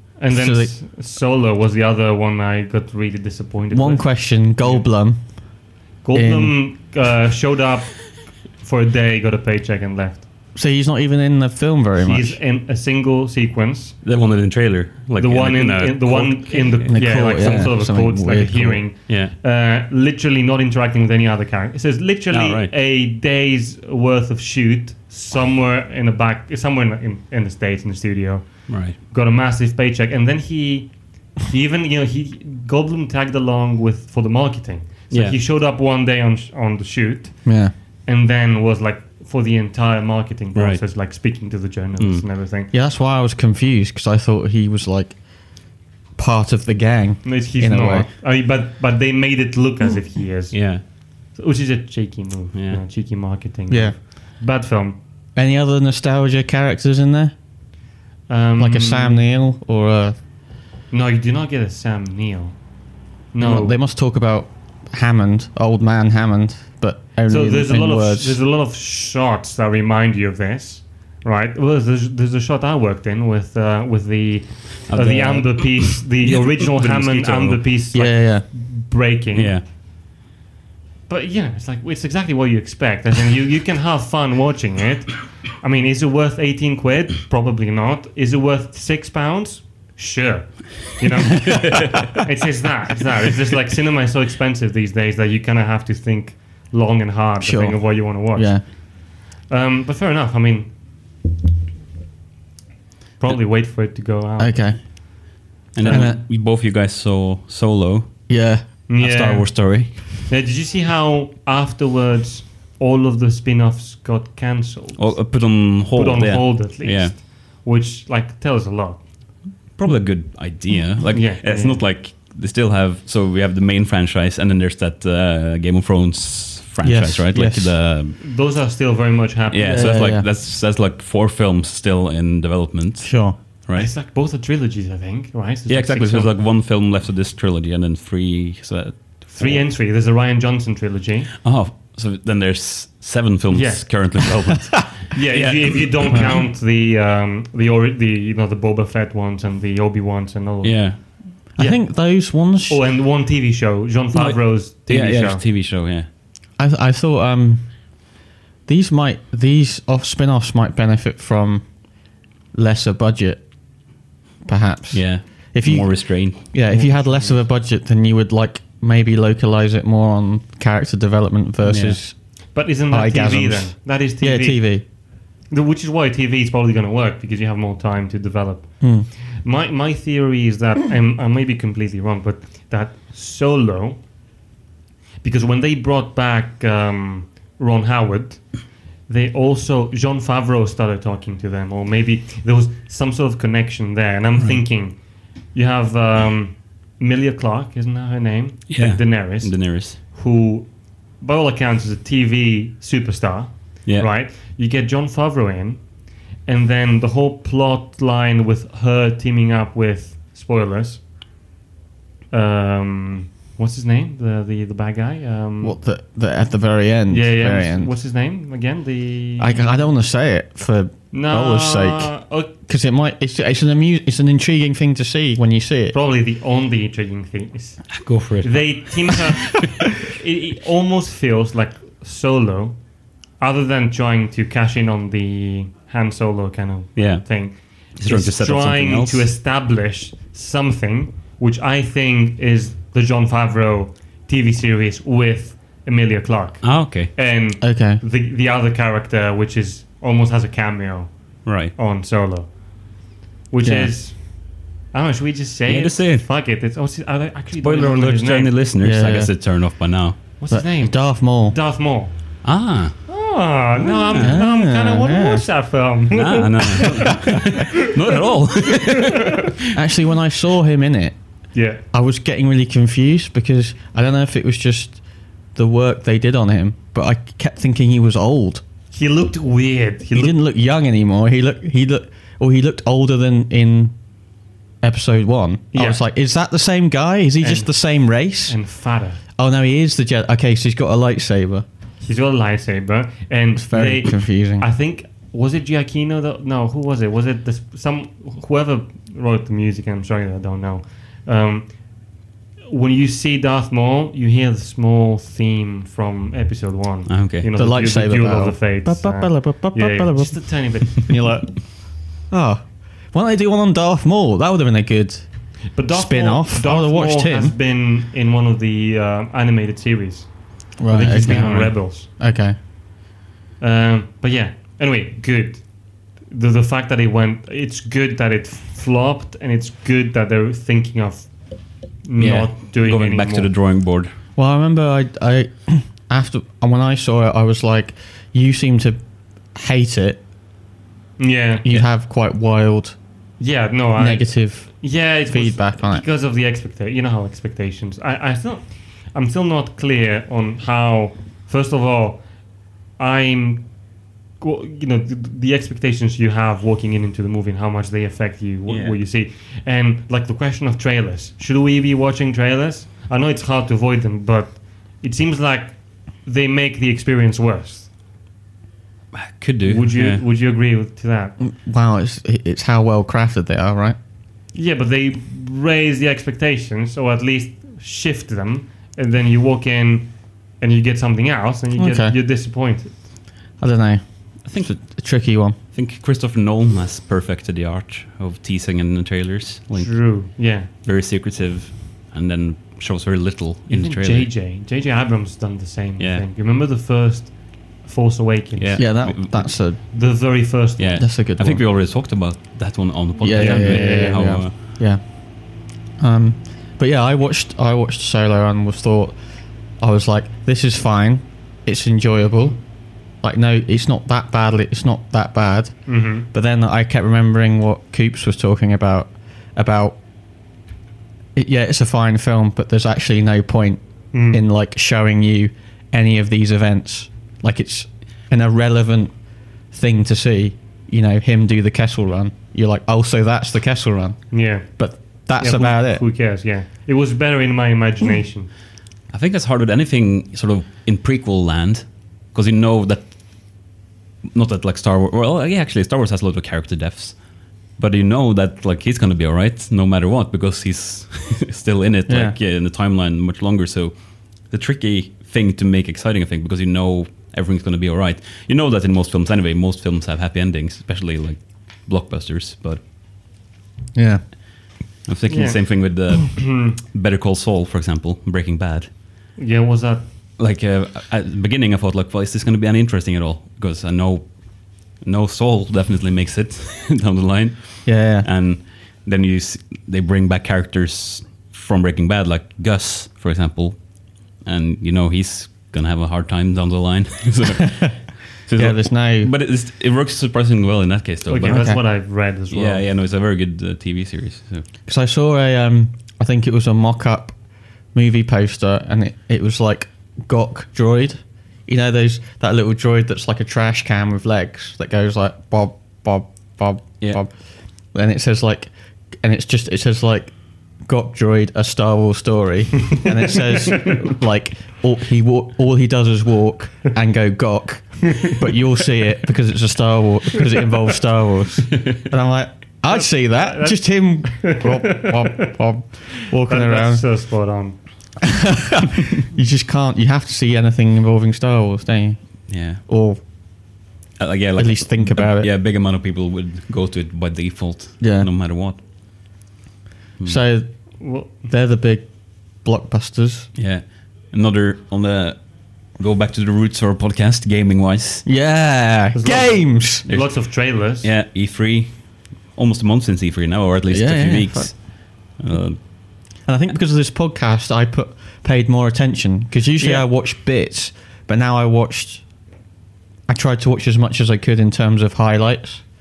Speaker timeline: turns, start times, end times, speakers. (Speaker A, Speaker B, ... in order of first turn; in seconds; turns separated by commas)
Speaker A: 0.2-4.9, Speaker B: 0.3-0.7, Speaker B: 3.7-5.4, Speaker A: 6.0-10.3, Speaker B: 6.1-6.5, Speaker B: 10.5-12.4, Speaker A: 12.0-14.0, Speaker C: 14.0-17.6, Speaker A: 15.2-42.7, Speaker B: 16.9-18.8, Speaker C: 22.3-22.7, Speaker C: 28.7-29.0, Speaker C: 35.1-35.4, Speaker B: 37.4-37.7, Speaker C: 40.5-40.8, Speaker C: 42.0-42.2, Speaker B: 42.7-45.2, Speaker B: 46.1-48.1, Speaker A: 47.2-55.0, Speaker C: 50.5-50.8, Speaker C: 52.5-52.8, Speaker B: 53.7-54.0, Speaker B: 55.4-57.3, Speaker A: 58.3-59.3, Speaker B: 58.6-60.2, Speaker A: 60.9-62.6, Speaker A: 63.3-63.8, Speaker B: 63.4-68.4, Speaker A: 67.3-79.6, Speaker C: 74.9-77.6, Speaker B: 77.9-78.4, Speaker C: 79.3-79.6, Speaker A: 81.1-100.8, Speaker C: 91.4-92.0, Speaker B: 97.4-98.6, Speaker A: 103.2-104.9, Speaker B: 104.4-104.8, Speaker C: 105.7-108.2, Speaker A: 105.8-106.1, Speaker B: 105.9-106.2, Speaker B: 108.3-108.7, Speaker A: 108.9-119.0, Speaker C: 109.0-110.1, Speaker C: 115.0-117.2, Speaker C: 119.7-128.2, Speaker A: 121.1-121.8, Speaker B: 126.8-127.8, Speaker A: 128.2-130.1, Speaker C: 129.5-133.9, Speaker B: 129.7-130.3, Speaker B: 133.0-133.4, Speaker A: 133.8-136.3, Speaker C: 135.7-139.6, Speaker A: 139.3-141.4, Speaker C: 141.4-146.4, Speaker A: 143.5-155.4, Speaker C: 150.6-151.0, Speaker B: 151.6-152.8, Speaker C: 154.1-156.1, Speaker B: 156.6-157.8, Speaker B: 158.7-161.8, Speaker B: 162.5-163.4, Speaker B: 164.4-174.8, Speaker C: 164.9-166.4, Speaker A: 166.7-167.4, Speaker C: 171.6-172.0, Speaker A: 172.5-174.9, Speaker A: 175.5-184.0, Speaker B: 178.8-179.1, Speaker A: 185.2-211.0, Speaker C: 198.7-200.0, Speaker C: 203.8-204.1, Speaker A: 212.3-215.8, Speaker B: 215.6-217.9, Speaker A: 217.1-219.7, Speaker B: 219.4-225.9, Speaker A: 221.1-222.5, Speaker A: 225.9-232.8, Speaker C: 227.9-229.6, Speaker A: 233.4-258.6, Speaker C: 236.9-239.3, Speaker C: 246.6-247.1, Speaker B: 247.6-248.0, Speaker C: 251.4-251.7, Speaker B: 253.6-253.9, Speaker C: 255.7-256.2, Speaker C: 257.6-260.2, Speaker B: 258.8-259.3, Speaker A: 260.4-262.1, Speaker B: 260.5-261.6, Speaker C: 262.4-263.1, Speaker A: 263.1-267.6, Speaker C: 264.1-264.4, Speaker B: 264.2-265.4, Speaker C: 266.1-269.5, Speaker A: 268.8-269.1, Speaker B: 269.7-271.2, Speaker A: 271.5-271.8, Speaker B: 271.9-275.0, Speaker B: 275.6-278.6, Speaker A: 278.9-280.4, Speaker B: 280.1-283.9, Speaker B: 284.8-288.6, Speaker A: 285.7-286.0, Speaker A: 287.4-287.8, Speaker A: 288.4-289.2, Speaker B: 289.4-291.6, Speaker A: 292.0-302.1, Speaker B: 293.6-294.7, Speaker A: 302.7-311.4, Speaker C: 307.1-307.5, Speaker B: 307.6-315.2, Speaker A: 315.7-322.1, Speaker B: 315.9-317.6, Speaker B: 320.8-322.6, Speaker C: 321.2-321.7, Speaker A: 323.6-333.5, Speaker C: 332.2-334.1, Speaker B: 334.4-339.0, Speaker B: 339.5-340.2, Speaker A: 341.2-341.7, Speaker B: 341.6-343.0, Speaker A: 343.4-352.3, Speaker B: 344.0-346.0, Speaker A: 353.0-353.7, Speaker A: 354.4-367.9, Speaker C: 358.7-359.0, Speaker C: 369.1-370.2, Speaker A: 369.6-371.3, Speaker B: 371.4-374.0, Speaker A: 374.5-383.0, Speaker B: 381.8-382.1, Speaker B: 383.6-385.6, Speaker C: 384.4-384.8, Speaker C: 385.7-390.2, Speaker A: 389.7-390.7, Speaker C: 390.8-394.3, Speaker A: 393.7-399.4, Speaker C: 396.0-396.2, Speaker C: 398.6-399.5, Speaker B: 398.8-399.8, Speaker A: 399.9-401.0, Speaker C: 400.8-404.6, Speaker B: 401.0-401.6, Speaker B: 403.2-405.5, Speaker A: 403.3-404.5, Speaker B: 406.0-409.2, Speaker B: 409.8-412.6, Speaker B: 413.2-420.0, Speaker A: 415.9-416.3, Speaker B: 421.3-429.1, Speaker A: 424.1-424.4, Speaker B: 429.7-436.0, Speaker A: 434.3-438.5, Speaker C: 439.1-443.2, Speaker C: 444.3-447.2, Speaker C: 447.8-462.8, Speaker B: 452.1-452.3, Speaker B: 463.9-464.2, Speaker C: 465.1-468.9, Speaker A: 465.3-466.8, Speaker A: 469.4-470.0, Speaker C: 470.4-491.7, Speaker B: 477.8-478.3, Speaker B: 488.6-489.3, Speaker A: 491.3-492.8, Speaker B: 491.4-491.8, Speaker C: 492.5-494.6, Speaker B: 494.9-497.4, Speaker B: 497.9-507.3, Speaker B: 507.9-510.3, Speaker B: 510.8-527.1, Speaker A: 513.5-514.0, Speaker A: 518.1-518.4, Speaker A: 522.9-525.5, Speaker A: 526.3-527.8, Speaker B: 528.3-532.2, Speaker C: 532.5-532.8, Speaker B: 532.7-533.2, Speaker C: 534.2-538.8, Speaker B: 534.6-535.5, Speaker B: 538.0-538.3, Speaker B: 540.2-543.5, Speaker A: 541.0-541.5, Speaker C: 543.5-548.2, Speaker B: 548.2-550.1, Speaker A: 549.1-551.1, Speaker C: 550.1-555.8, Speaker B: 553.9-554.7, Speaker B: 556.5-562.2, Speaker A: 559.8-560.1, Speaker B: 563.3-565.8